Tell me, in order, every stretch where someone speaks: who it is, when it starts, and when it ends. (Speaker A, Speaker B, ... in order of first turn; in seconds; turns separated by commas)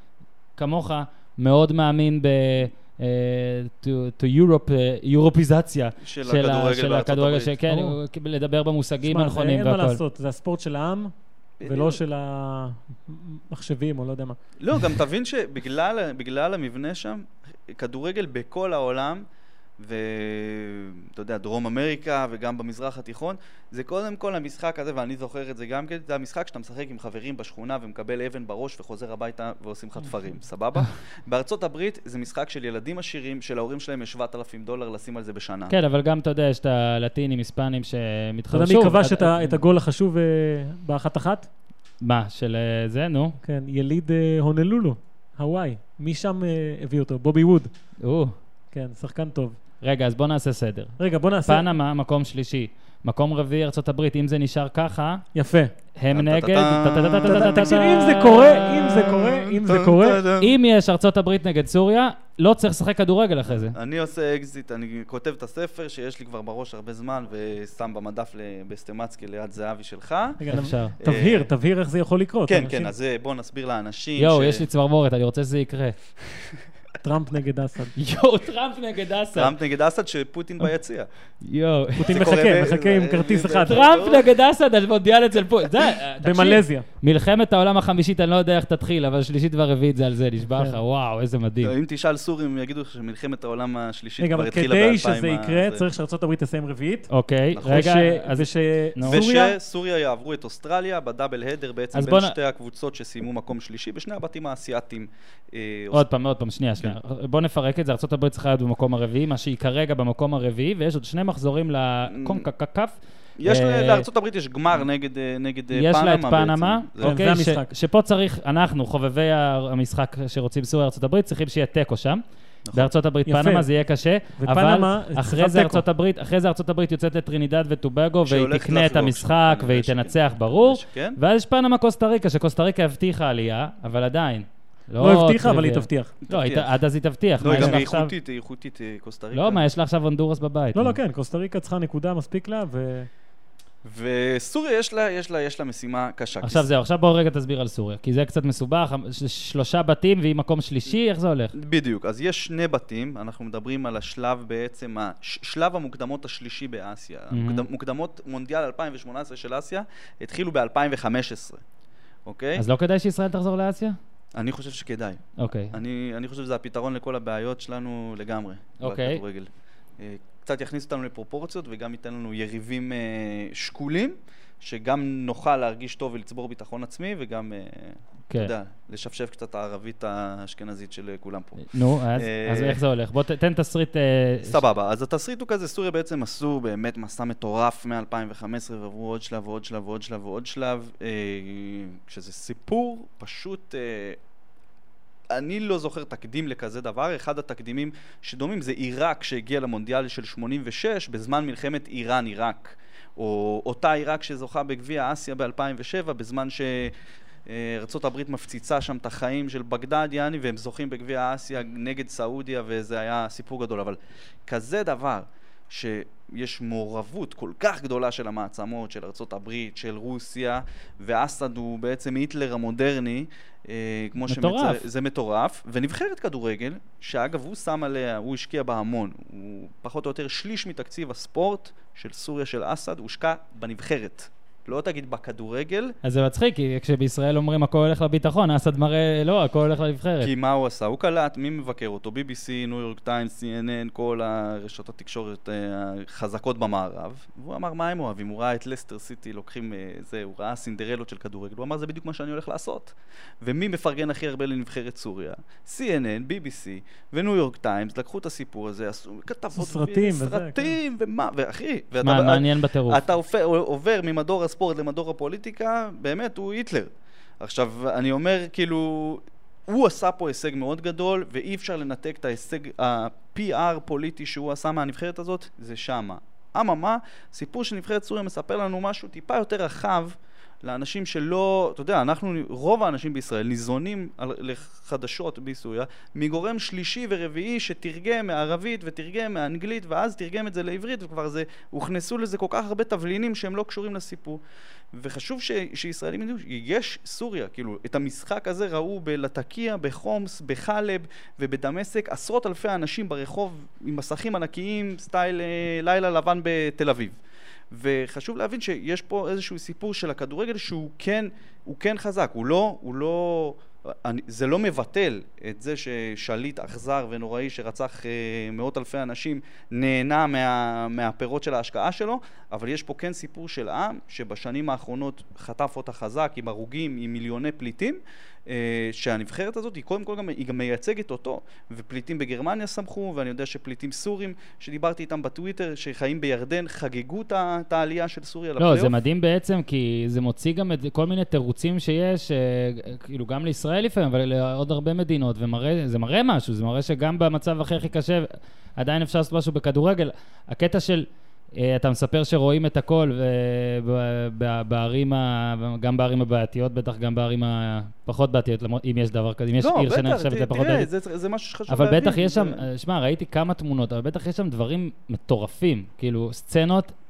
Speaker A: 0.6-10.0, Speaker B: 6.0-7.6, Speaker C: 7.7-8.0, Speaker C: 9.0-11.1, Speaker B: 11.6-12.0, Speaker C: 11.6-14.4, Speaker B: 14.6-19.2, Speaker B: 19.8-35.7, Speaker A: 35.7-39.6, Speaker C: 38.5-41.5, Speaker A: 42.0-43.4, Speaker C: 43.4-47.7, Speaker A: 48.0-48.3, Speaker C: 48.7-49.6, Speaker A: 49.8-55.2, Speaker C: 51.0-51.7, Speaker C: 55.3-55.7, Speaker A: 56.0-58.9, Speaker B: 56.1-60.6, Speaker C: 57.3-60.2, Speaker A: 60.4-63.8, Speaker B: 63.5-71.5, Speaker C: 70.4-72.9, Speaker A: 70.5-71.0, Speaker B: 72.5-74.7, Speaker A: 74.2-76.0, Speaker C: 77.0-77.9, Speaker A: 78.0-79.5, Speaker B: 79.3-81.1, Speaker A: 81.4-82.2, Speaker C: 82.0-83.8, Speaker B: 82.1-84.3, Speaker A: 83.6-91.7, Speaker C: 86.2-86.9, Speaker C: 90.5-90.8, Speaker B: 91.6-95.8, Speaker C: 94.2-97.1, Speaker A: 97.1-99.2, Speaker B: 97.5-98.0, Speaker C: 97.6-99.6, Speaker B: 99.0-106.1, Speaker A: 101.9-102.3, Speaker A: 105.9-112.9, Speaker B: 112.1-112.5, Speaker B: 113.4-117.2, Speaker A: 113.5-114.1, Speaker A: 115.7-122.2, Speaker C: 117.0-117.7, Speaker A: 122.7-138.1, Speaker C: 123.3-123.7, Speaker C: 124.4-125.8, Speaker B: 128.2-131.2, Speaker C: 135.0-136.1, Speaker B: 136.2-136.7, Speaker B: 137.4-139.6, Speaker C: 137.5-137.8, Speaker A: 139.3-141.0, Speaker C: 140.8-143.1, Speaker B: 143.8-146.7, Speaker A: 146.4-151.5, Speaker B: 151.6-161.6, Speaker A: 157.3-157.7, Speaker B: 162.3-162.7, Speaker A: 162.6-164.0, Speaker B: 164.3-182.8, Speaker A: 165.4-165.8, Speaker A: 168.8-169.2, Speaker A: 181.6-184.6, Speaker B: 184.4-194.2, Speaker B: 195.3-206.9, Speaker B: 207.5-236.0, Speaker A: 224.3-224.8, Speaker A: 236.0-240.3, Speaker B: 240.2-294.4, Speaker C: 259.6-260.8, Speaker A: 262.0-263.0, Speaker B: 294.9-307.2, Speaker B: 307.7-338.9, Speaker A: 338.6-360.9, Speaker B: 359.6-362.6, Speaker A: 361.7-366.9